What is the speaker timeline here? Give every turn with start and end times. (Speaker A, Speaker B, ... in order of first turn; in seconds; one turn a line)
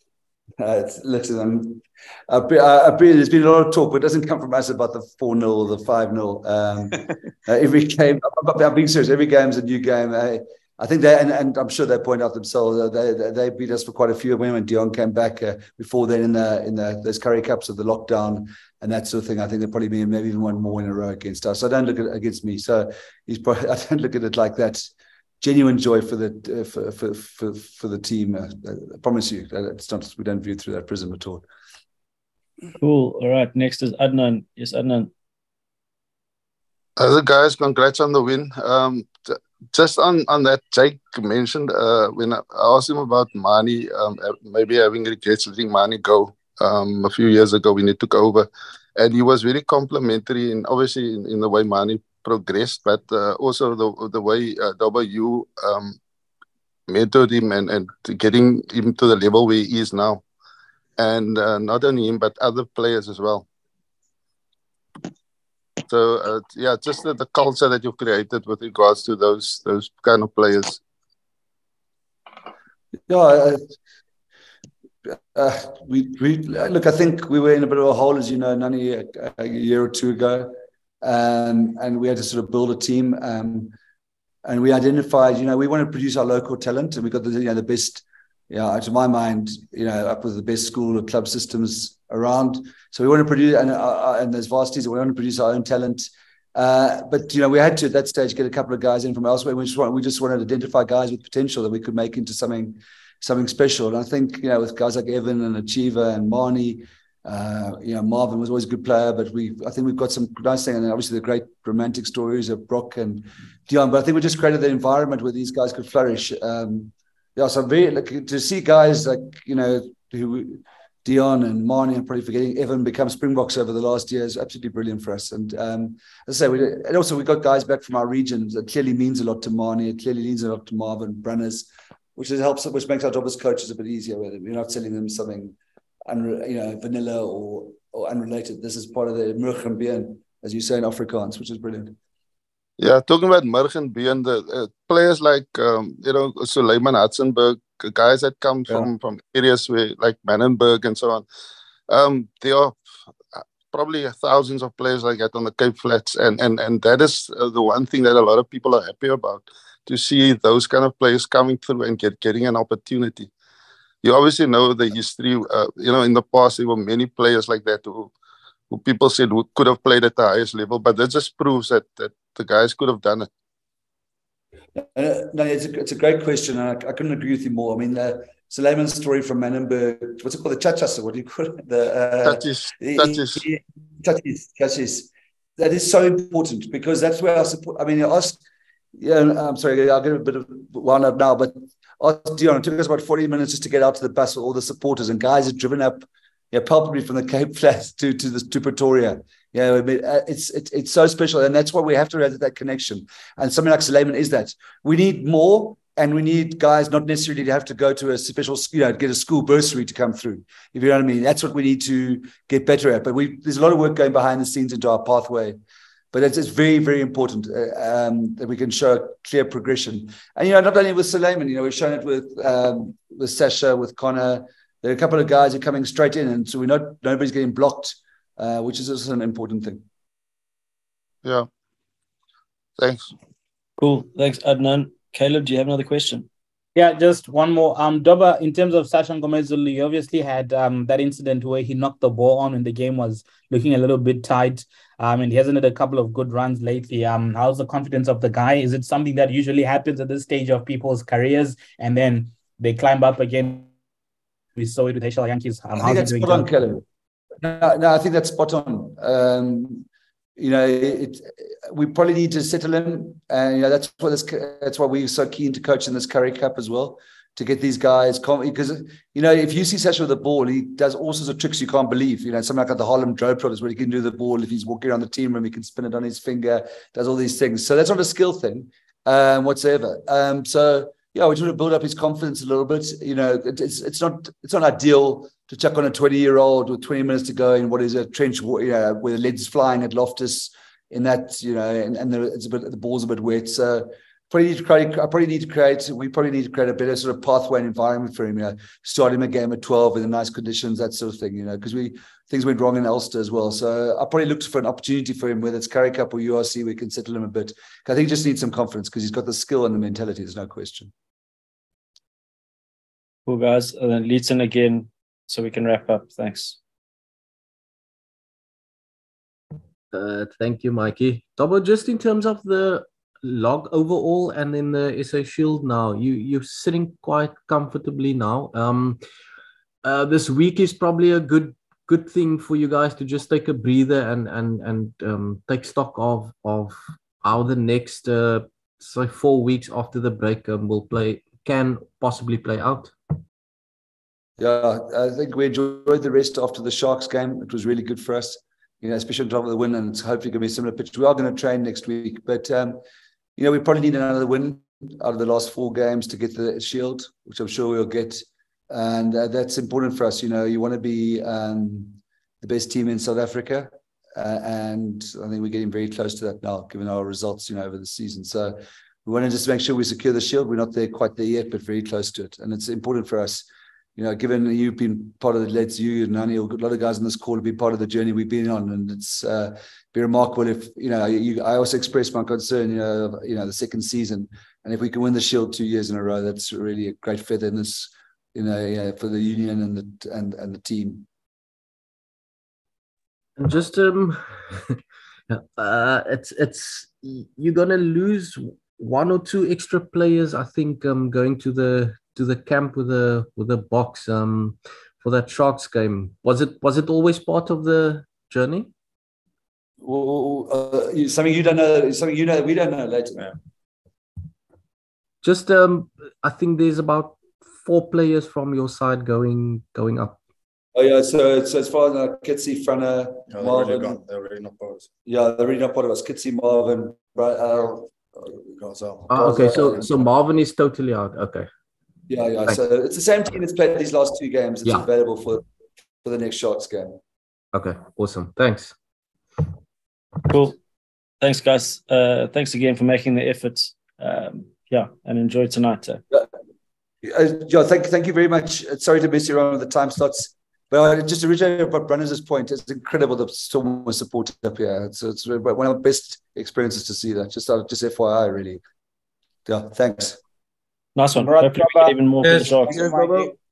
Speaker A: 0.6-24.9
Speaker A: 25.4-31.4
Speaker B: 32.8-35.1
Speaker C: 37.0-56.0
Speaker C: 56.9-60.2
Speaker C: 61.0-63.4
Speaker C: 65.9-70.8
Speaker A: 73.1-73.6
Speaker A: 75.3-83.7
Speaker A: 84.4-141.9
Speaker C: 142.8-151.2
Speaker C: 151.9-152.8
Speaker C: 153.7-163.3
Speaker C: 164.0-168.1
Speaker C: 168.7-173.3
Speaker A: 174.8-188.4
Speaker C: 182.2-183.4
Speaker A: 189.0-215.6
Speaker A: 216.1-229.8
Speaker C: 232.8-233.1
Speaker B: 233.8-236.2
Speaker D: 236.7-253.7
Speaker D: 254.6-256.6
Speaker A: 255.8-256.8
Speaker A: 257.4-259.9
Speaker A: 260.4-310.9
Speaker B: 313.2-316.6
Speaker E: 319.9-329.0
Speaker E: 329.8-343.2
Speaker A: 344.4-352.8
Speaker A: 353.4-391.0
Speaker E: 393.4-408.7
Speaker A: 409.8-413.3
Speaker E: 415.2-420.2
Speaker A: 420.7-424.0
Speaker F: 423.3-424.9
Speaker A: 425.1-427.9
Speaker F: 428.6-429.1
Speaker E: 429.1-431.5
Speaker A: 429.1-430.0
Speaker A: 432.1-435.4
Speaker A: 436.0-437.0
Speaker E: 437.5-438.8
Speaker B: 440.3-440.5
Speaker B: 441.2-446.0
Speaker A: 447.0-458.6
Speaker A: 459.4-460.2
Speaker B: 460.9-462.9
Speaker D: 462.6-463.3